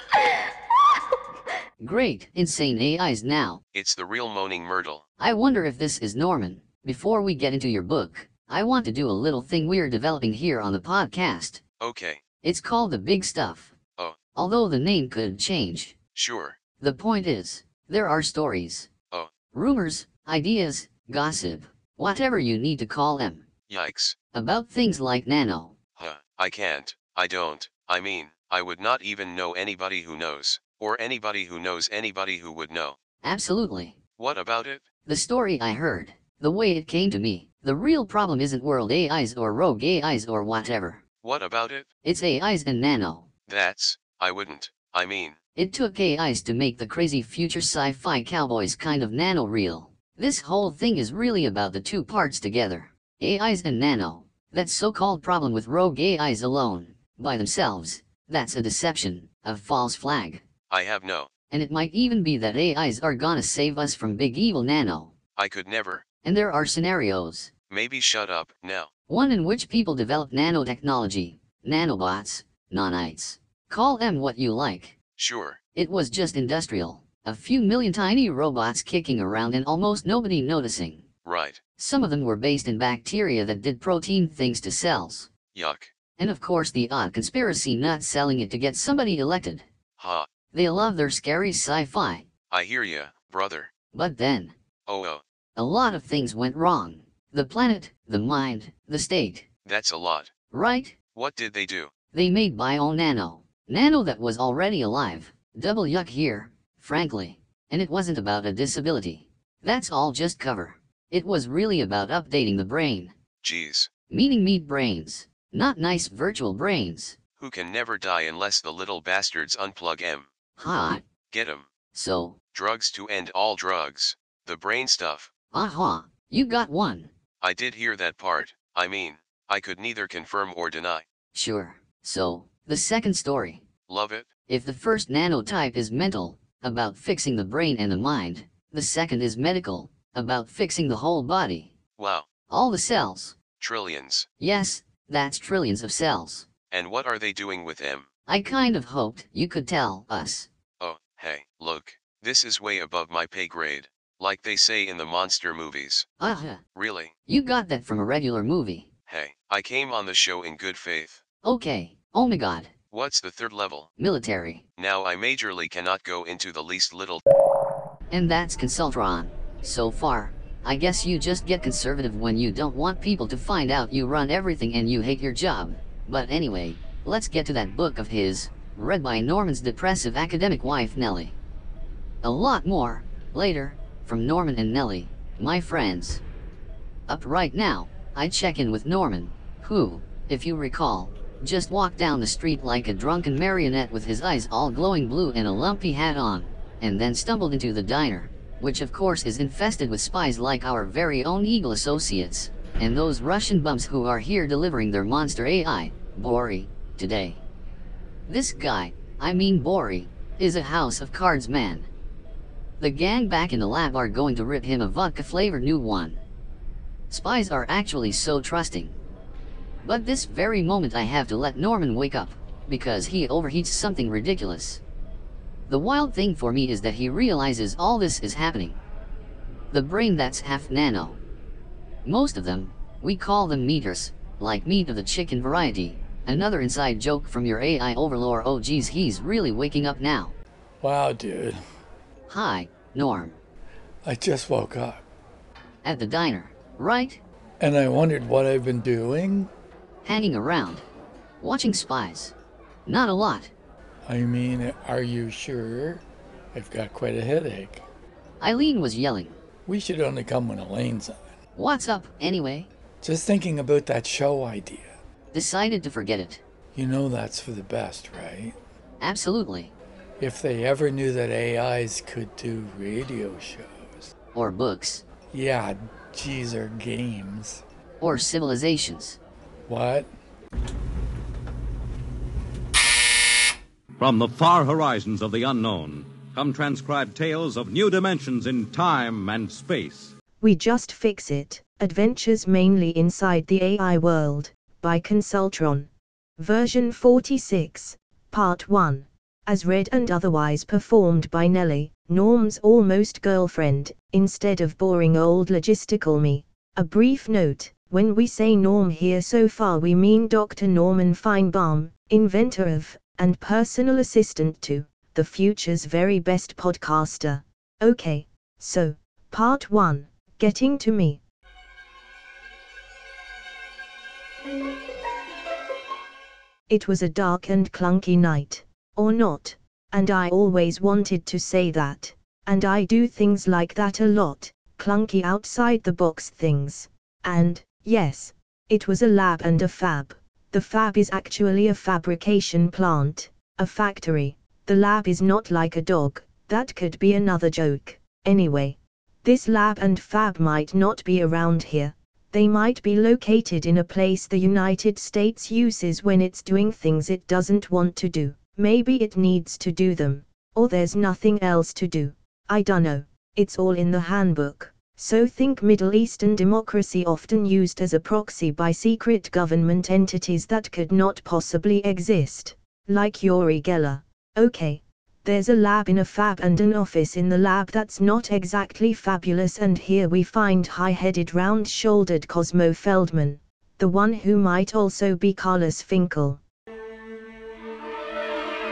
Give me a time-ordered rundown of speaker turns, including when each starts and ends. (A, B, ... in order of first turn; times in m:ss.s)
0:01.8-0:03.6 A
0:03.7-0:05.0 B
0:05.2-0:11.6 A
0:11.8-0:12.2 B
0:12.4-0:13.8 A
0:14.3-0:15.9 A
0:16.1-0:16.6 B
0:16.8-0:18.9 A
0:19.5-0:23.4 A
0:23.7-0:24.2 B
0:24.3-0:25.8 A
0:26.0-0:33.0 B
0:33.2-0:34.0 A
0:34.2-0:34.8 B
0:35.0-0:41.0 A
0:41.2-0:41.8 B
0:42.0-0:43.3 A
0:43.5-0:45.4 B
0:45.6-1:00.4 A
1:00.7-1:01.3 B
1:01.5-1:05.1 A
1:05.4-1:06.0 B
1:06.2-1:07.5 A
1:07.7-1:08.9 B
1:09.1-1:14.9 A
1:15.2-1:15.6 B
1:15.8-1:21.0 A
1:21.2-1:21.6 B
1:21.8-1:25.3 A
1:25.5-1:25.9 B
1:26.2-1:29.6 A
1:30.0-1:30.3 B
1:30.5-1:32.2 A
1:32.5-1:33.7 B
1:33.9-1:34.5 A
1:34.9-1:35.2 B
1:35.6-1:39.4 A
1:39.6-1:40.3 B
1:40.5-1:41.0 A
1:41.1-1:41.9 B
1:42.1-1:53.1 A
1:53.4-1:53.9 B
1:54.1-1:57.2 A
1:57.4-2:00.3 B
2:00.6-2:01.0 A
2:01.3-2:01.6 B
2:01.9-2:02.4 A
2:02.5-2:05.3 B
2:05.5-2:07.1 A
2:07.4-2:11.0 B
2:11.3-2:13.6 A
2:13.9-2:14.3 B
2:14.5-2:21.8 A
2:22.0-2:22.3 B
2:22.5-2:23.4 A
2:23.6-2:24.3 B
2:24.4-2:26.5 A
2:26.7-2:28.1 B
2:28.3-2:30.5 A
2:30.8-2:36.0 B
2:36.2-2:36.6 A
2:36.8-2:37.1 B
2:37.3-2:38.9 A
2:39.1-2:41.2 B
2:41.4-2:42.7 A
2:42.9-2:43.9 B
2:44.0-2:44.6 A
2:44.8-2:47.2 B
2:48.1-3:01.4 A
3:02.2-3:06.2 A
3:07.1-3:27.4 A
3:28.3-3:31.9 A
3:32.8-3:36.2 A
3:37.1-3:39.0 A
3:39.8-3:44.8 A
3:45.7-3:48.8 A
3:49.7-3:51.2 A
3:52.0-4:00.3 A
4:00.8-4:01.6 C
4:02.3-4:03.4 A
4:04.0-4:05.0 C
4:05.8-4:07.2 A
4:07.6-4:09.5 C
4:10.0-4:10.8 A
4:11.4-4:12.3 A
4:12.8-4:13.5 A
4:14.0-4:17.8 C
4:18.4-4:19.4 A
4:19.6-4:21.2 C
4:21.5-4:22.7 A
4:23.0-4:25.0 C
4:25.3-4:26.4 A
4:26.7-4:28.6 C
4:29.0-4:29.8 A
4:30.2-4:34.1 C
4:34.3-4:35.0 A
4:35.3-4:37.6 C
4:38.0-4:39.2 A
4:39.7-4:40.1 C
4:44.0-4:50.1 D
4:50.4-5:21.2 E
5:26.7-6:26.4 E